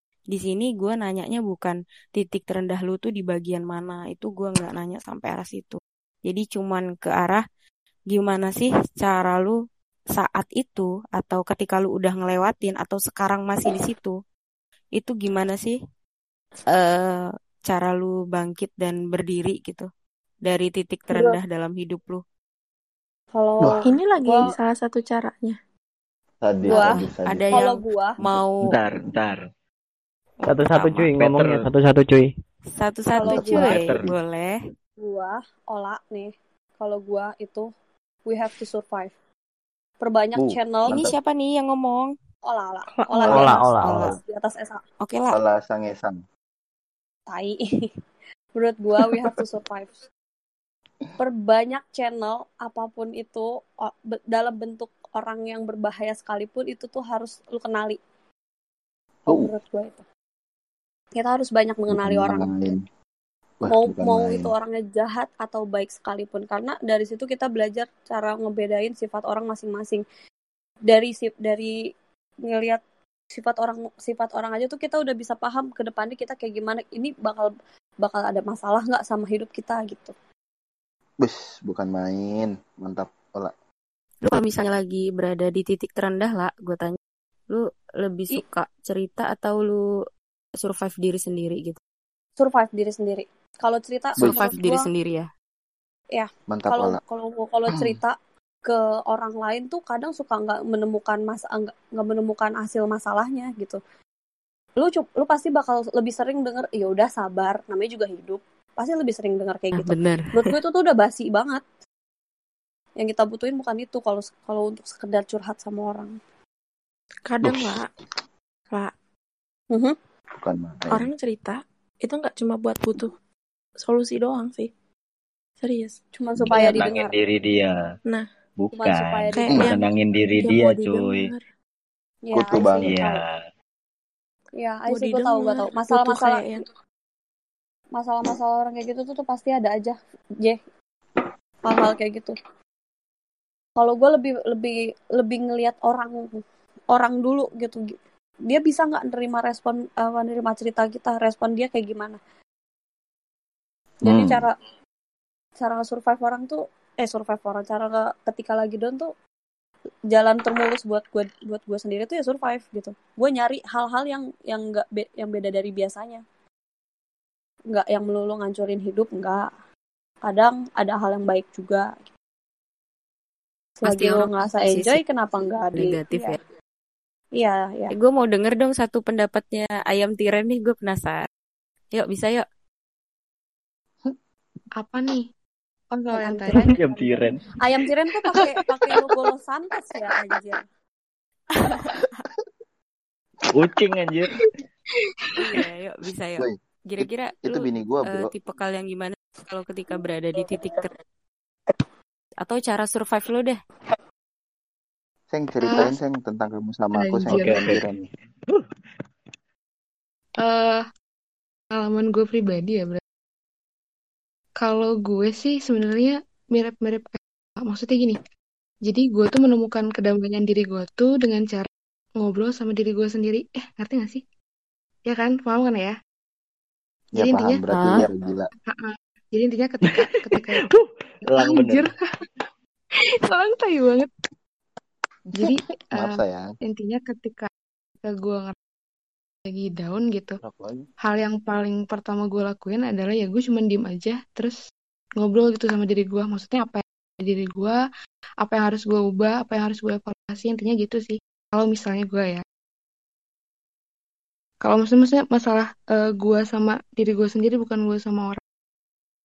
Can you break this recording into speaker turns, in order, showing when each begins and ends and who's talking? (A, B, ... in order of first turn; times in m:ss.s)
0:00.3-0:07.4 A
0:08.1-0:09.6 A
0:10.2-0:14.2 A
0:15.0-0:15.8 A
0:16.7-0:19.9 A
0:20.5-0:22.2 A
0:21.1-0:21.4 B
0:23.3-0:24.6 B
0:23.9-0:25.6 C
0:26.4-0:27.5 D
0:26.7-0:28.2 B
0:26.7-0:28.7 A
0:28.7-0:29.4 E
0:30.4-0:31.1 A
0:30.5-0:32.3 F
0:31.1-0:31.6 E
0:32.7-0:34.6 A
0:33.1-0:33.9 B
0:33.3-0:34.1 D
0:33.7-0:34.0 E
0:35.0-0:37.7 B
0:38.3-0:39.1 B
0:40.0-0:41.0 B
0:40.4-0:41.1 D
0:40.9-0:42.1 A
0:42.4-0:44.8 B
0:43.2-0:44.2 F
0:43.2-0:43.5 D
0:45.0-0:45.4 A
0:45.3-0:46.2 D
0:47.3-0:47.6 B
0:48.6-0:50.0 B
0:51.2-0:58.0 B
0:59.3-1:00.0 B
1:01.2-1:02.5 B
1:01.9-1:02.8 D
1:03.6-1:04.5 D
1:03.7-1:10.0 B
1:10.9-1:11.7 B
1:12.5-1:12.8 B
1:13.3-1:17.5 B
1:18.0-1:20.1 B
1:21.2-1:23.5 D
1:24.3-1:27.0 A
1:27.5-1:29.8 A
1:30.6-1:31.8 A
1:32.4-1:34.9 B
1:34.2-1:35.3 A
1:34.2-1:34.5 D
1:36.1-1:43.8 B
1:36.5-1:37.0 D
1:44.8-1:51.6 B
1:49.8-1:50.4 A
1:53.0-1:56.2 B
1:57.3-1:57.9 C
2:00.4-2:01.1 D
2:00.9-2:03.1 C
2:03.8-2:04.7 C
2:05.6-2:06.1 C
2:06.2-2:07.2 B
2:06.5-2:07.8 E
2:08.6-2:11.3 E
2:08.7-2:09.6 B
2:09.4-2:09.7 G
2:10.4-2:11.4 C
2:12.3-2:13.2 B
2:12.3-2:13.0 D
2:12.8-2:13.3 E
2:14.6-2:16.6 B
2:14.9-2:16.6 G
2:15.9-2:16.5 A
2:18.0-2:20.6 B
2:21.6-2:22.3 B
2:23.8-2:26.4 B
2:26.9-2:27.9 B
2:28.5-2:32.2 B
2:34.0-2:34.6 B
2:34.0-2:34.4 E
2:35.6-2:39.1 B
2:40.1-2:46.2 B
2:47.7-2:49.5 B
2:50.2-2:52.0 B
2:53.8-2:56.0 B
2:53.8-2:55.0 A
2:55.7-2:56.4 A
2:57.4-2:57.9 B
2:57.9-3:01.3 A
3:02.0-3:02.4 A
3:04.8-3:05.3 G
3:05.9-3:06.8 G
3:06.5-3:07.4 E
3:06.9-3:10.6 B
3:08.3-3:08.6 G
3:11.7-3:12.0 A
3:13.5-3:14.3 E
3:15.4-3:20.9 A
3:16.4-3:18.3 D
3:22.4-3:23.6 A
3:25.3-3:28.1 D
3:25.6-3:26.0 G
3:26.9-3:27.8 G
3:30.4-3:30.8 G
3:31.7-3:33.0 G
3:34.6-3:38.2 G
3:38.9-3:41.7 G
3:42.2-3:44.2 G
3:45.1-3:46.0 G
3:47.1-3:48.5 D
3:47.2-3:47.6 G
3:47.7-3:48.1 A
3:48.7-3:50.6 G
3:49.9-3:51.9 E
3:51.3-3:52.1 G
3:53.0-3:54.1 G
3:55.3-3:57.5 G
3:55.4-3:56.6 D
3:58.0-3:58.6 G
3:59.5-4:00.4 G
4:00.4-4:00.9 D
4:01.0-4:04.6 G
4:05.2-4:07.8 G
4:08.4-4:12.4 G
4:14.6-4:18.4 G